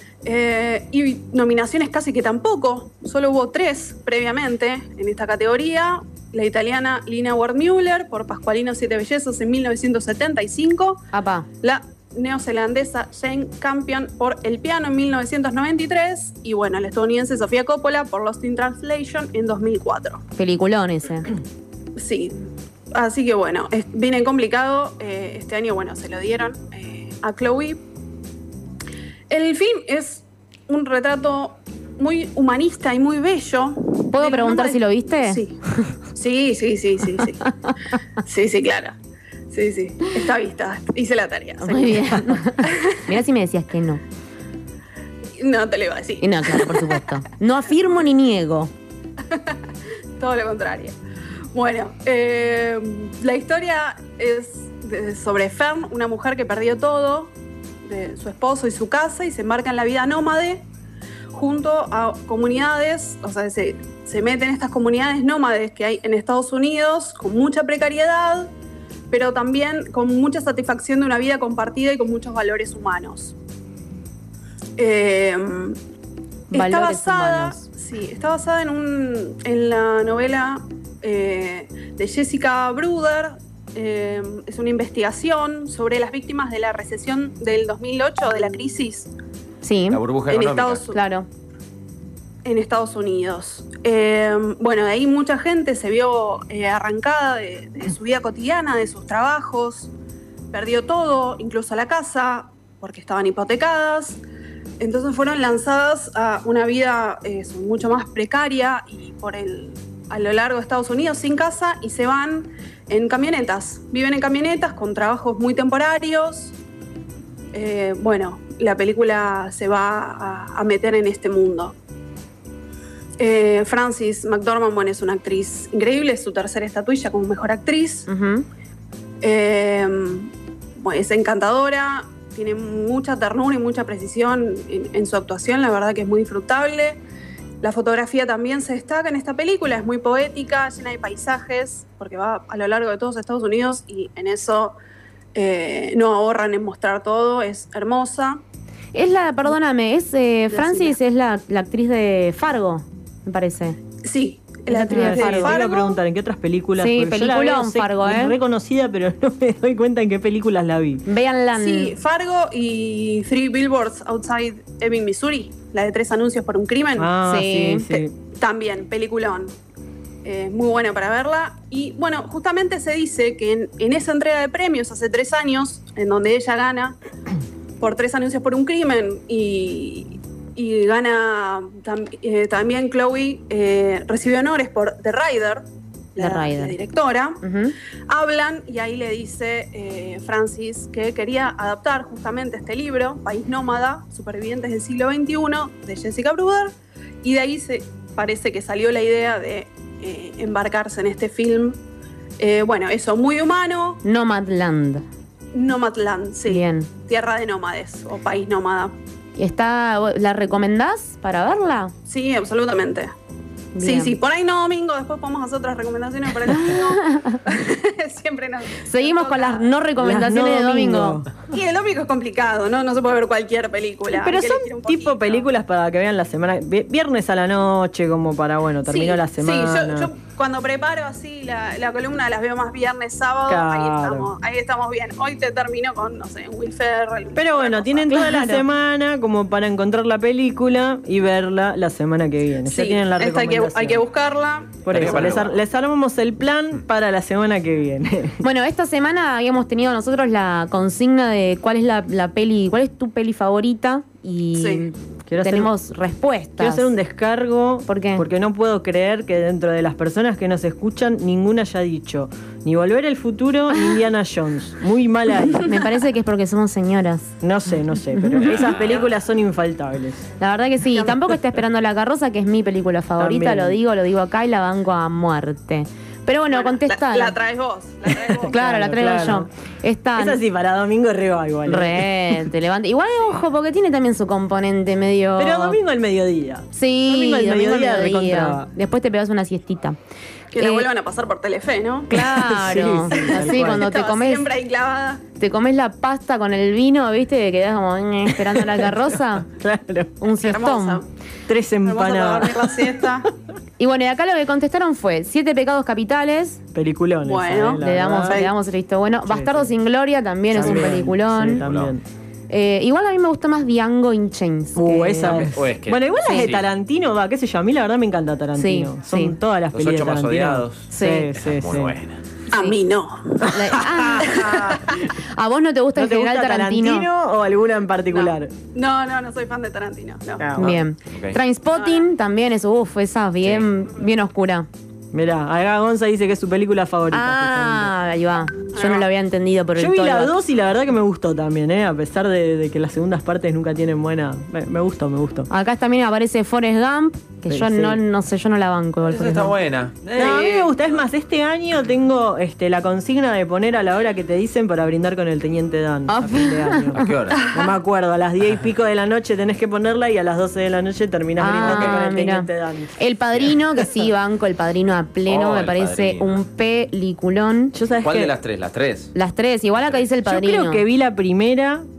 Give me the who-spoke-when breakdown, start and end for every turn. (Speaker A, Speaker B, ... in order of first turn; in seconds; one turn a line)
Speaker A: 0.2-11.1
Speaker B: 11.1-11.4
Speaker A: 11.6-20.2
Speaker B: 20.4-21.3
Speaker A: 21.9-27.8
Speaker A: 29.3-35.5
Speaker B: 34.1-35.9
Speaker A: 36.1-37.4
Speaker A: 38.2-38.9
Speaker A: 39.5-43.0
Speaker B: 41.6-44.0
Speaker A: 45.4-46.9
Speaker B: 46.2-48.7
Speaker A: 49.3-49.6
Speaker A: 50.2-51.0
Speaker A: 51.5-60.6
Speaker A: 61.3-68.5
Speaker A: 69.1-73.3
Speaker A: 74.8-75.8
Speaker B: 76.5-77.6
Speaker A: 76.5-89.1
Speaker B: 89.6-90.0
Speaker C: 89.9-90.8
Speaker A: 90.3-91.0
Speaker B: 90.9-91.3
Speaker A: 92.4-99.9
Speaker A: 100.5-104.2
Speaker A: 104.8-116.5
Speaker A: 117.5-121.7
Speaker A: 123.2-128.1
Speaker B: 128.1-128.4
Speaker A: 129.2-137.0
Speaker A: 137.6-144.7
Speaker A: 145.3-148.4
Speaker B: 148.9-153.8
Speaker A: 150.5-150.9
Speaker A: 154.0-156.0
Speaker D: 154.7-161.0
Speaker B: 154.8-155.5
Speaker B: 156.8-158.3
Speaker B: 161.0-161.9
Speaker A: 161.6-167.1
Speaker D: 167.0-168.1
Speaker B: 167.2-168.0
Speaker A: 168.3-169.5
Speaker A: 170.2-176.9
Speaker A: 177.8-187.4
Speaker B: 186.2-186.8
Speaker B: 187.4-187.7
Speaker A: 188.1-201.8
Speaker A: 202.4-204.0
Speaker B: 204.0-205.0
Speaker A: 205.5-208.9
Speaker B: 206.5-206.9
Speaker B: 209.3-211.9
Speaker A: 212.1-213.1
Speaker B: 213.7-214.1
Speaker A: 213.8-219.7
Speaker B: 218.8-221.2
Speaker D: 220.0-221.3
Speaker A: 221.5-225.4
Speaker D: 224.1-230.1
Speaker A: 228.9-238.2
Speaker D: 233.5-234.3
Speaker D: 237.3-244.0
Speaker B: 238.1-238.6
Speaker A: 242.7-244.8
Speaker D: 244.8-248.4
Speaker C: 244.9-245.6
Speaker B: 248.4-256.9
Speaker A: 254.5-254.8
Speaker D: 255.3-255.7
Speaker D: 256.6-265.7
Speaker B: 257.9-258.2
Speaker B: 265.6-267.3
Speaker D: 267.4-270.2
Speaker B: 268.1-268.5
Speaker C: 268.4-269.1
Speaker B: 270.4-277.4
Speaker D: 273.2-273.8
Speaker A: 276.5-278.5
Speaker D: 278.4-279.5
Speaker B: 278.5-280.4
Speaker D: 280.2-282.3
Speaker B: 281.6-285.8
Speaker D: 285.4-288.7
Speaker B: 286.7-290.0
Speaker A: 290.5-292.1
Speaker B: 290.6-290.9
Speaker B: 292.1-294.4
Speaker D: 292.1-293.9
Speaker A: 293.1-295.2
Speaker B: 295.4-299.5
Speaker D: 298.4-298.7
Speaker D: 299.6-300.1
Speaker B: 300.2-301.0
Speaker A: 300.4-301.1
Speaker D: 301.5-302.7
Speaker A: 301.9-303.3
Speaker B: 303.8-306.6
Speaker D: 306.7-308.5
Speaker A: 307.2-308.5
Speaker B: 307.8-311.6
Speaker D: 309.3-309.7
Speaker D: 310.5-312.0
Speaker C: 311.6-311.9
Speaker B: 312.5-315.4
Speaker D: 314.7-321.9
Speaker C: 315.2-316.6
Speaker B: 318.5-319.4
Speaker C: 319.7-322.2
Speaker B: 320.9-321.3
Speaker A: 322.5-325.1
Speaker B: 323.4-327.1
Speaker D: 325.9-328.5
Speaker A: 328.1-330.4
Speaker D: 330.4-330.8
Speaker B: 330.6-334.7
Speaker C: 331.1-331.4
Speaker A: 331.8-332.1
Speaker D: 335.1-337.9
Speaker B: 337.1-340.3
Speaker A: 338.7-339.0
Speaker D: 339.8-345.5
Speaker B: 345.5-349.5
Speaker D: 347.5-348.0
Speaker C: 349.1-350.3
Speaker D: 350.1-363.0
Speaker A: 350.2-350.7
Speaker B: 356.1-356.9
Speaker C: 357.0-357.5
Speaker B: 361.4-367.7
Speaker C: 361.6-362.0
Speaker C: 365.3-366.3
Speaker D: 367.7-368.3
Speaker C: 368.0-369.1
Speaker B: 369.1-370.8
Speaker C: 369.8-370.1
Speaker D: 370.2-371.9